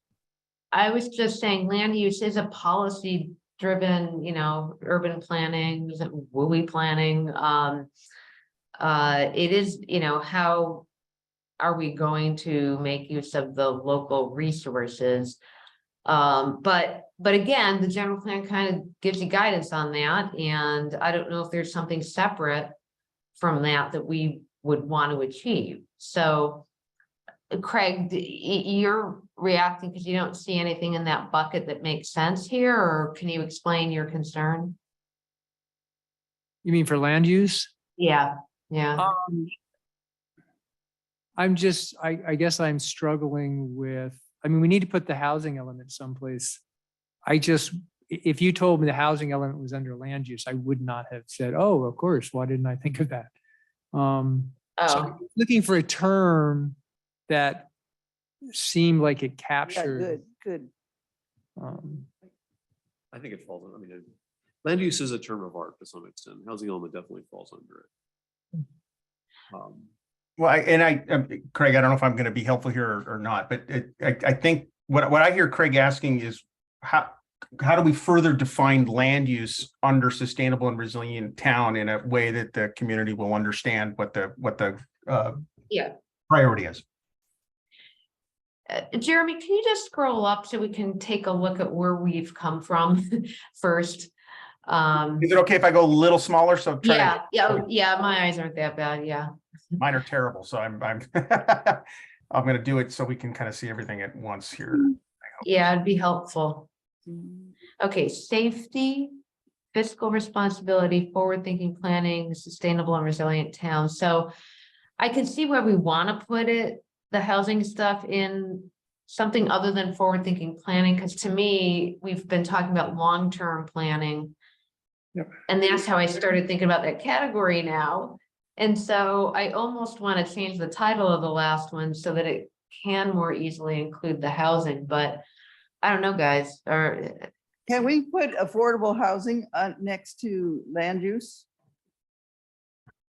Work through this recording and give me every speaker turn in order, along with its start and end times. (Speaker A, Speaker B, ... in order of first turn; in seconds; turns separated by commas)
Speaker A: 0.7-7.9, Speaker A: 8.8-10.9, Speaker A: 11.6-15.4, Speaker A: 16.0-22.8, Speaker A: 23.4-26.7, Speaker A: 27.5-34.8, Speaker B: 36.6-37.7, Speaker A: 38.0-39.1, Speaker B: 39.0-39.5, Speaker B: 41.4-46.6, Speaker B: 47.2-53.3, Speaker B: 53.9-56.8, Speaker A: 54.8-55.1, Speaker B: 57.3-57.7, Speaker B: 58.5-60.2, Speaker C: 59.7-60.7, Speaker B: 61.6-62.1, Speaker D: 63.1-64.1, Speaker D: 64.6-67.9, Speaker D: 69.5-69.9, Speaker E: 70.4-85.4, Speaker E: 86.3-86.8, Speaker A: 88.7-94.1, Speaker A: 94.7-95.3, Speaker E: 95.2-97.6, Speaker A: 96.8-99.3, Speaker E: 99.8-105.0, Speaker A: 105.4-106.7, Speaker C: 107.1-107.5, Speaker A: 107.8-109.2, Speaker A: 109.7-114.3, Speaker A: 115.0-124.3, Speaker A: 125.5-135.2, Speaker A: 135.8-137.3, Speaker C: 137.7-141.4